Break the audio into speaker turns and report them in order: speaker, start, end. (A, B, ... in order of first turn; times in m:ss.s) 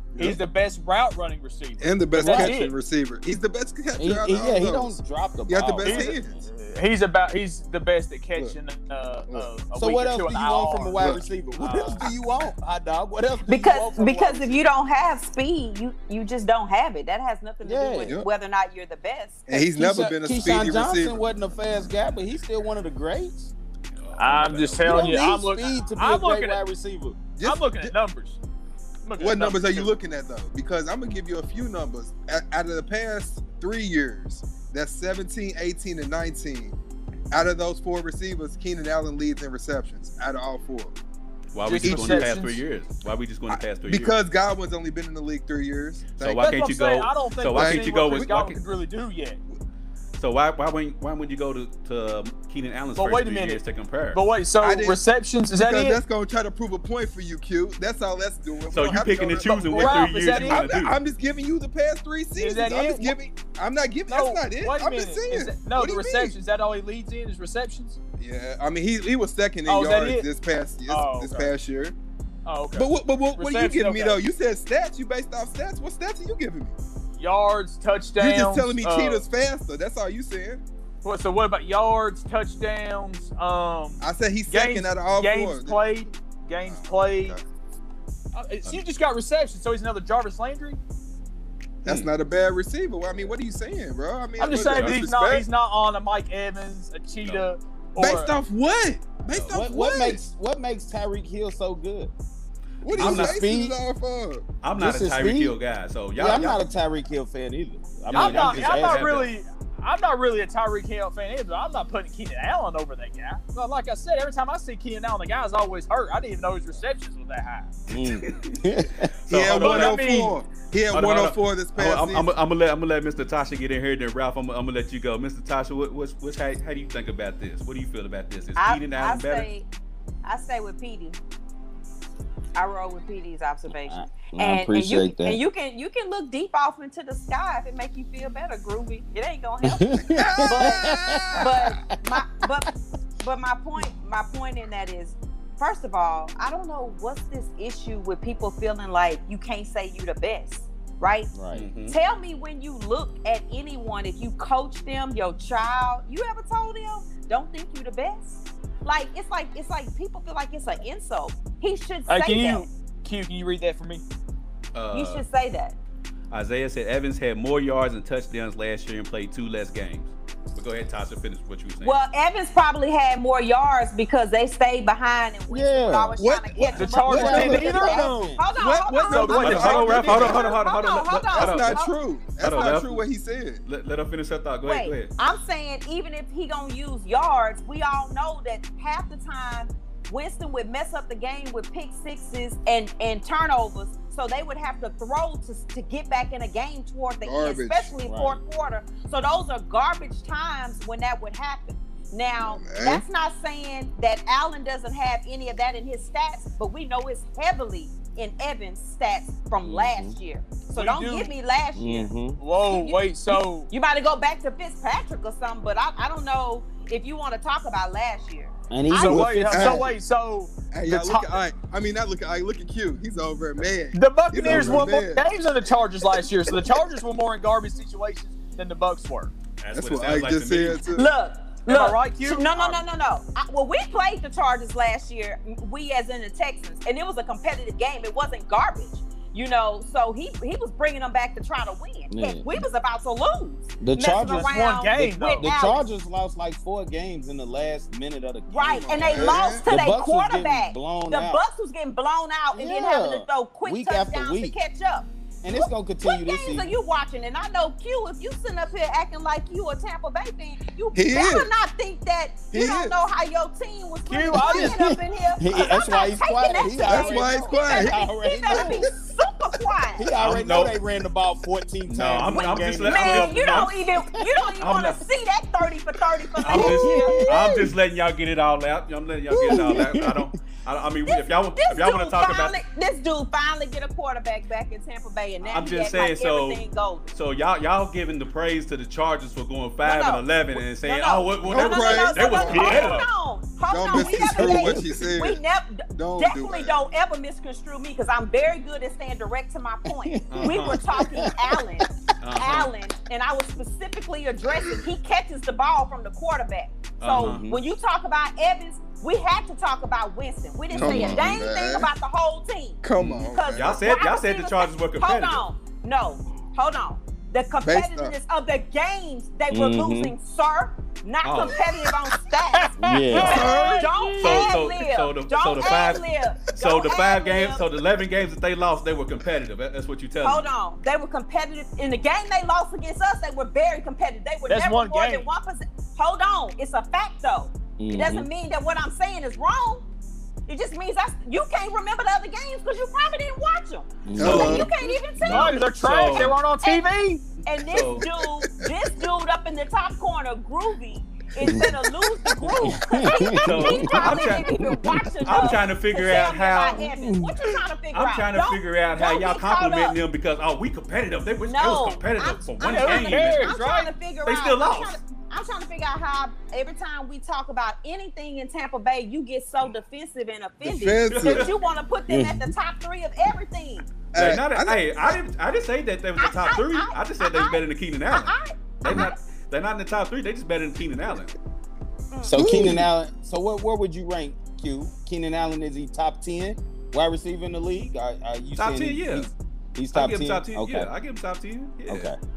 0:00.2-0:00.4 A
0:00.2-0:02.8 B
0:01.8-0:06.4 A
0:02.2-0:02.6 C
0:04.0-0:06.2 C
0:05.8-0:12.0 B
0:09.8-0:14.6 C
0:11.0-0:12.5 A
0:13.5-0:19.5 D
0:17.6-0:18.2 C
0:19.5-0:21.4 A
0:19.6-0:23.5 C
0:24.0-0:25.3 E
0:24.2-0:26.6 B
0:24.8-0:27.2 C
0:27.4-0:27.9 A
0:27.4-0:28.4 B
0:29.0-0:30.0 B
0:29.2-0:36.8 A
0:37.3-0:41.0 A
0:41.5-0:44.2 E
0:41.6-0:42.6 B
0:41.8-0:42.3 A
0:43.5-0:46.5 A
0:46.2-0:48.6 E
0:46.4-0:49.4 B
0:47.5-0:48.3 A
0:50.2-0:54.2 E
0:53.0-0:53.6 B
0:54.1-0:56.0 B
0:54.6-0:55.0 A
0:55.6-1:06.4 A
0:58.7-1:01.0 E
0:59.5-1:00.7 B
1:02.4-1:03.2 B
1:04.1-1:08.0 B
1:08.2-1:12.0 A
1:09.7-1:10.3 B
1:10.9-1:11.5 B
1:12.5-1:14.2 B
1:12.7-1:16.8 A
1:17.2-1:19.2 B
1:18.2-1:20.6 A
1:21.0-1:27.4 B
1:24.0-1:25.8 A
1:26.6-1:27.4 A
1:28.3-1:30.8 B
1:31.8-1:32.1 E
1:31.8-1:35.5 A
1:34.4-1:38.4 B
1:34.5-1:35.0 E
1:38.0-1:40.2 A
1:39.3-1:39.6 E
1:39.5-1:42.1 C
1:42.8-1:44.5 A
1:42.9-1:43.4 E
1:43.0-1:43.8 C
1:44.6-1:46.6 E
1:44.8-1:45.6 C
1:46.2-1:49.1 C
1:48.1-1:49.3 E
1:48.1-1:57.7 B
1:57.9-1:59.1 C
1:58.0-1:58.7 E
1:59.3-2:00.3 E
1:59.3-2:02.2 A
1:59.5-2:00.4 B
2:00.9-2:09.5 E
2:08.6-2:09.7 D
2:10.2-2:11.2 D
2:12.6-2:22.7 D
2:13.7-2:15.4 C
2:19.6-2:22.2 C
2:20.1-2:21.5 A
2:23.2-2:31.3 D
2:31.3-2:31.7 C
2:31.5-2:32.0 E
2:31.9-2:42.7 D
2:42.1-2:44.0 B
2:44.7-2:45.2 E
2:44.9-2:45.8 D
2:46.3-2:52.0 E
2:51.8-3:02.0 D
2:55.5-2:56.2 C
2:56.2-3:00.5 A
2:56.8-2:58.0 B
2:57.1-2:58.5 C
2:58.9-3:00.3 B
2:59.3-3:01.8 E
3:01.3-3:03.6 A
3:02.4-3:03.0 E
3:03.6-3:05.1 E
3:04.6-3:32.1 D
3:17.2-3:17.9 A
3:18.0-3:18.4 C
3:22.4-3:23.0 A
3:29.6-3:30.2 C
3:30.7-3:31.3 B
3:31.8-3:32.4 C
3:32.4-3:33.7 B
3:32.6-3:33.1 D
3:33.7-3:39.4 D
3:38.7-3:39.9 C
3:38.9-3:41.4 B
3:39.5-3:39.9 A
3:40.7-3:45.3 A
3:43.9-3:49.3 B
3:44.4-3:44.9 C
3:46.2-3:46.5 A
3:49.6-3:50.8 E
3:49.8-3:51.1 A
3:50.9-4:05.9 D
3:51.7-3:52.8 B
4:02.1-4:02.6 C
4:03.8-4:11.4 C
4:04.3-4:05.5 B
4:08.5-4:30.1 D
4:08.7-4:09.7 A
4:12.5-4:14.6 C
4:15.4-4:16.7 C
4:20.9-4:21.5 A
4:22.5-4:23.0 A
4:24.1-4:24.8 B
4:24.3-4:28.9 C
4:26.8-4:28.9 A
4:30.0-4:34.2 C
4:30.2-4:30.8 E
4:31.9-4:33.8 E
4:32.4-4:37.4 D
4:34.6-4:35.1 E
4:36.4-4:42.6 E
4:36.4-4:37.7 C
4:39.3-4:39.8 D
4:39.5-4:40.3 C
4:41.1-4:47.1 D
4:45.4-4:53.1 E
4:49.8-4:50.3 D
4:50.8-5:27.6 D
4:51.4-4:52.9 A
4:52.5-4:53.1 B
4:53.7-4:55.4 A
4:53.9-4:55.1 C
4:56.0-4:56.8 A
4:59.9-5:01.9 C
5:00.3-5:00.9 E
5:02.2-5:02.7 E
5:07.0-5:07.4 E
5:07.2-5:07.6 C
5:10.7-5:11.9 A
5:10.8-5:11.3 C
5:12.8-5:13.8 A
5:13.0-5:15.4 E
5:17.6-5:18.1 A
5:19.5-5:20.2 C
5:21.2-5:21.6 E
5:22.3-5:24.4 B
5:22.8-5:23.6 C
5:23.2-5:23.9 A
5:24.2-5:30.5 E
5:30.2-5:39.8 D
5:34.5-5:35.3 B
5:37.8-5:38.3 C
5:40.5-5:45.6 D
5:44.0-5:45.4 C
5:44.2-5:44.7 A
5:44.2-5:46.4 E
5:45.3-5:47.2 B
5:46.6-6:00.0 D
5:47.6-5:48.1 E
5:51.4-5:51.8 C
5:52.6-5:55.1 C
5:53.4-5:54.6 E
5:55.2-5:56.8 E
5:56.8-5:57.4 C
5:57.9-6:03.5 E
6:01.5-6:13.9 D
6:02.6-6:03.9 B
6:04.2-6:05.0 E
6:10.6-6:11.5 A
6:11.1-6:11.5 E
6:12.1-6:12.5 C
6:14.1-6:14.8 A
6:14.2-6:21.4 E
6:16.2-6:19.2 D
6:22.1-6:22.4 D
6:22.2-6:30.9 C
6:22.3-6:22.9 A
6:28.6-6:29.3 E
6:29.9-6:32.1 E
6:31.9-6:32.2 C